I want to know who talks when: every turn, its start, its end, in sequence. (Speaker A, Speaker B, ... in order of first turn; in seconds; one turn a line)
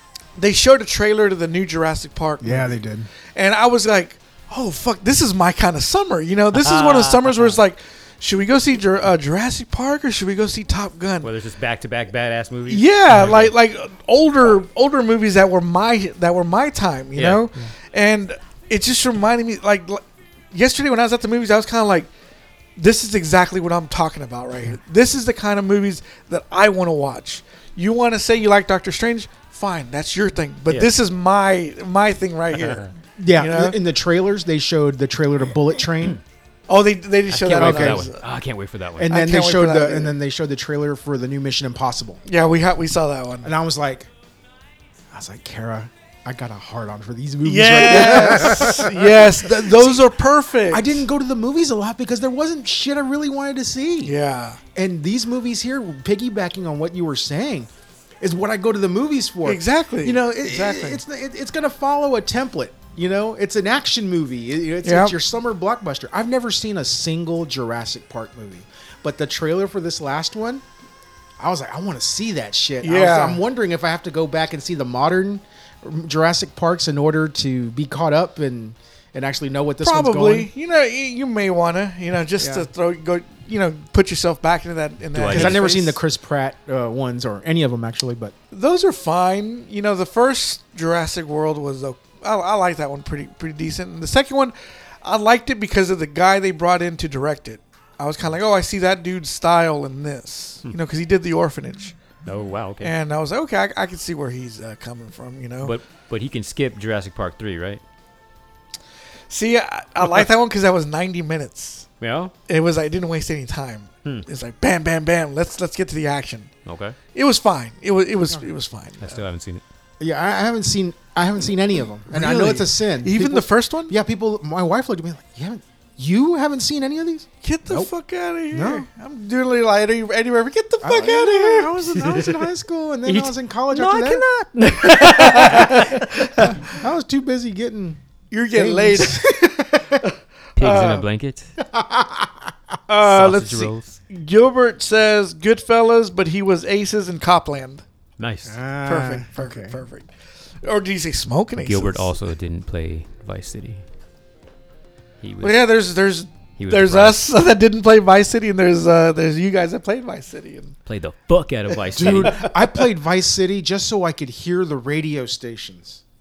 Speaker A: 0.4-2.8
Speaker B: 2.4-3.1
Speaker A: 3.3-11.3
Speaker C: 6.5-7.6
Speaker C: 11.2-13.5
Speaker A: 12.7-22.1
Speaker C: 17.1-17.4
Speaker A: 22.8-33.8
Speaker C: 32.6-32.9
Speaker B: 33.2-36.2
Speaker A: 36.7-38.2
Speaker C: 37.3-39.2
Speaker B: 37.5-38.1
Speaker B: 39.0-42.2
Speaker A: 39.1-40.1
Speaker A: 42.2-43.5
Speaker B: 43.4-44.1
Speaker B: 45.1-50.0
Speaker A: 47.4-51.0
Speaker B: 50.7-54.1
Speaker A: 54.0-54.6
Speaker B: 54.7-57.7
Speaker B: 58.2-70.6
Speaker A: 59.4-61.0
Speaker A: 64.8-65.1
Speaker B: 71.4-80.5
Speaker A: 72.8-73.4
Speaker A: 79.8-86.0
Speaker B: 82.4-82.7
Speaker C: 85.1-85.7
Speaker B: 85.3-88.3
Speaker A: 88.5-101.9
Speaker C: 102.2-102.9
Speaker A: 102.8-105.7
Speaker C: 105.6-107.8
Speaker A: 109.3-111.9
Speaker C: 112.0-112.3
Speaker A: 112.5-116.5
Speaker C: 116.7-117.0
Speaker A: 117.1-119.2
Speaker C: 119.0-119.6
Speaker B: 120.0-127.9
Speaker A: 122.1-123.9
Speaker A: 127.4-131.9
Speaker B: 128.5-128.9
Speaker B: 130.8-134.2
Speaker C: 132.0-132.4
Speaker C: 133.0-136.5
Speaker A: 134.8-136.7
Speaker B: 135.4-138.0
Speaker A: 138.3-139.4
Speaker B: 138.5-140.1
Speaker A: 140.0-141.0
Speaker C: 140.6-141.5
Speaker B: 141.6-142.5
Speaker A: 142.9-147.8
Speaker C: 143.0-144.0
Speaker C: 148.2-148.6
Speaker B: 148.4-149.8
Speaker A: 148.8-150.1
Speaker A: 150.6-152.1
Speaker C: 151.6-153.8
Speaker C: 155.2-155.6
Speaker A: 155.4-160.8
Speaker C: 156.6-157.2
Speaker C: 160.8-162.4
Speaker B: 161.9-166.0
Speaker A: 162.0-162.8